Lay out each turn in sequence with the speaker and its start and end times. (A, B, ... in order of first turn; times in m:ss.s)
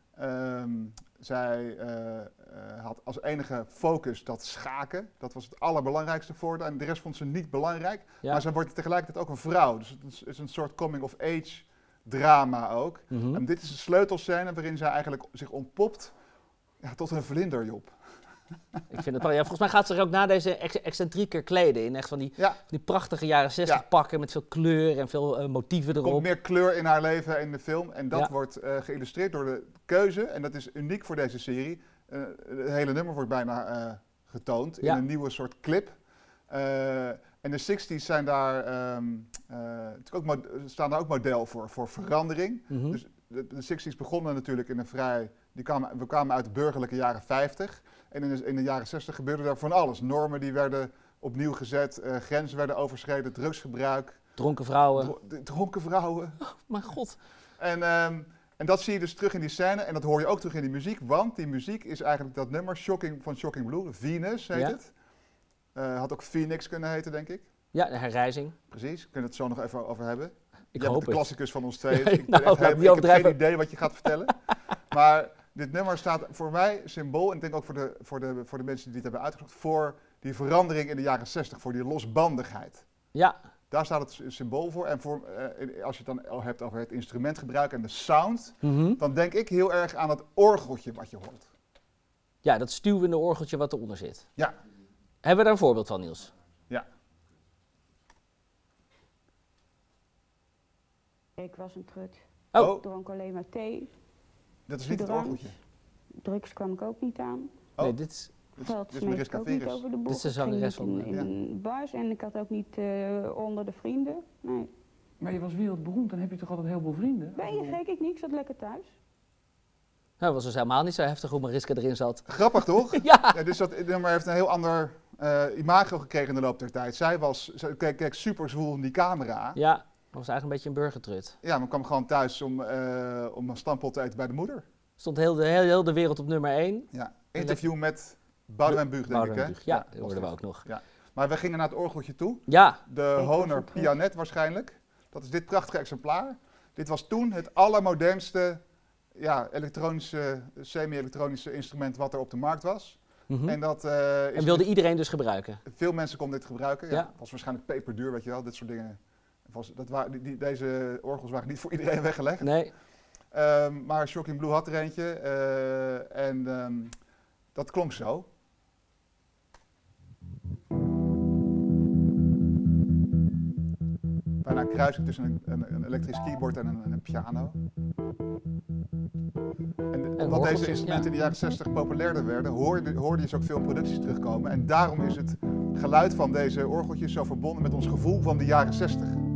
0:00.2-0:16.1 A
0:13.1-0:13.4 B
0:16.8-0:17.9 A
0:18.9-0:26.3 B
0:26.0-0:36.0 A
0:36.5-0:54.3 A
0:42.7-0:43.0 B
0:54.4-0:55.1 B
0:55.0-0:56.4 A
0:56.4-0:57.2 B
0:57.6-1:04.9 A
1:05.7-1:07.5 A
1:07.7-1:08.5 B
1:08.7-1:14.4 A
1:10.7-1:11.3 B
1:11.9-1:13.4 B
1:14.9-1:22.8 A
1:23.7-1:31.5 A
1:28.6-1:29.0 B
1:32.4-1:34.2 B
1:35.2-1:36.3 B
1:41.4-1:43.9 C
1:42.6-1:42.8 A
1:44.7-1:45.5 A
1:44.8-1:45.5 C
1:46.2-1:47.5 C
1:47.8-1:48.3 B
1:48.6-1:49.8 A
1:48.6-1:54.7 C
1:50.1-1:51.2 B
1:55.2-1:57.8 D
1:57.4-1:58.9 C
2:00.2-2:02.3 B
2:02.3-2:09.6 A
2:02.9-2:03.4 B
2:09.6-2:11.4 B
2:11.4-2:14.6 A
2:15.0-2:17.6 B
2:16.9-2:28.6 A
2:18.7-2:20.6 B
2:22.5-2:22.8 B
2:23.2-2:23.9 C
2:29.2-2:34.7 A
2:33.3-2:33.6 B
2:34.4-2:35.6 B
2:35.7-2:42.5 A
2:42.4-2:42.7 B
2:43.3-2:46.9 A
2:47.5-2:48.3 A
2:54.4-2:57.6 A
2:59.9-3:09.2 A
3:00.2-3:01.1 B